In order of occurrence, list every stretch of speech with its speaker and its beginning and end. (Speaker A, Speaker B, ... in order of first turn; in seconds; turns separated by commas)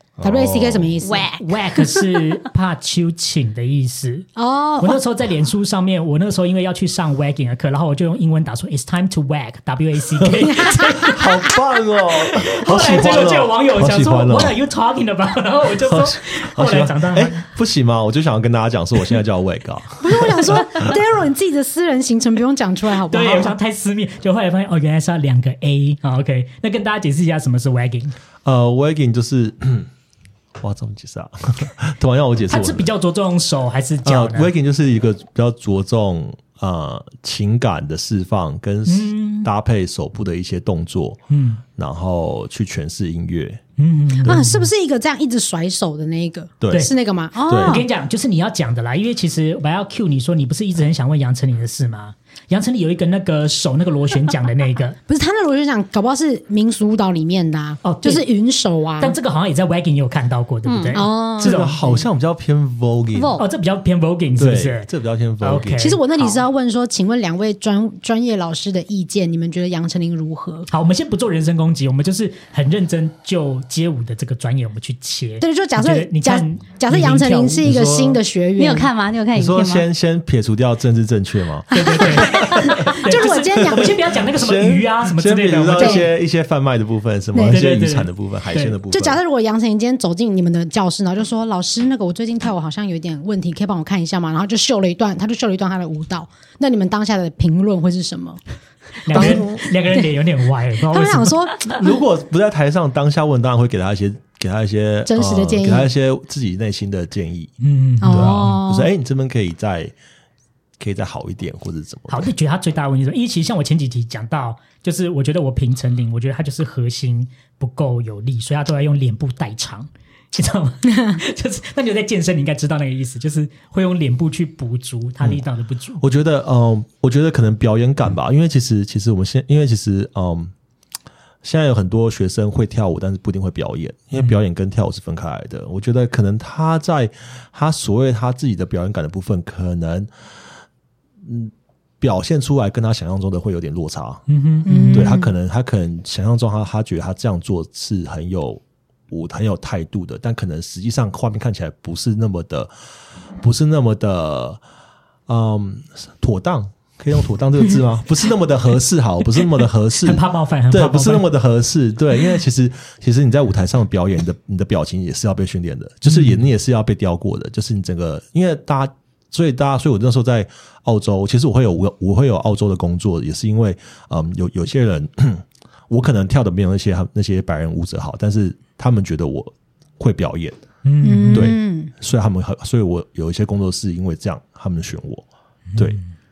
Speaker A: 0.2-1.0, Speaker B: 0.2-1.3, Speaker C: 1.0-2.0, Speaker D: 1.4-4.3, Speaker B: 4.3-5.0, Speaker D: 4.8-11.6, Speaker B: 10.5-10.9, Speaker A: 11.0-14.6, Speaker D: 12.2-17.4, Speaker A: 15.8-20.9, Speaker B: 20.0-23.5, Speaker D: 23.1-28.1, Speaker A: 28.4-29.9, Speaker A: 30.6-32.9, Speaker D: 32.5-34.5, Speaker A: 34.0-41.2, Speaker D: 38.9-39.5, Speaker D: 41.3-41.6, Speaker A: 41.7-43.6, Speaker D: 43.8-44.7, Speaker B: 44.2-47.9, Speaker A: 46.6-46.9, Speaker A: 47.4-47.8, Speaker D: 47.6-55.0, Speaker B: 55.1-59.1, Speaker D: 57.8-58.2, Speaker D: 59.0-61.7, Speaker C: 60.6-61.0, Speaker B: 60.9-62.1, Speaker A: 61.4-63.4, Speaker C: 63.1-63.4, Speaker D: 63.4-64.9, Speaker A: 64.4-65.8, Speaker D: 65.4-66.0, Speaker B: 65.8-70.7, Speaker D: 70.7-77.8, Speaker B: 75.4-78.9, Speaker A: 77.6-78.2, Speaker C: 78.6-79.9, Speaker A: 79.3-89.2, Speaker D: 81.7-86.0, Speaker B: 81.8-84.0, Speaker B: 85.7-86.0, Speaker B: 87.3-87.6, Speaker D: 87.5-88.8, Speaker B: 88.9-98.4, Speaker D: 99.0-101.4, Speaker B: 99.1-100.0, Speaker A: 99.1-99.7, Speaker B: 100.9-101.9, Speaker A: 101.7-109.9, Speaker B: 105.1-105.9, Speaker D: 107.6-108.6, Speaker B: 108.0-108.9, Speaker A: 110.8-112.3, Speaker D: 112.1-126.0, Speaker A: 126.0-130.5, Speaker A: 131.4-140.1, Speaker A: 141.2-152.7, Speaker D: 144.3-145.1, Speaker B: 144.7-145.3, Speaker A: 153.4-154.6, Speaker A: 155.3-180.6, Speaker D: 160.0-161.3, Speaker D: 166.0-166.4, Speaker D: 180.8-181.5, Speaker B: 181.0-181.9, Speaker A: 181.3-185.2, Speaker D: 185.7-186.0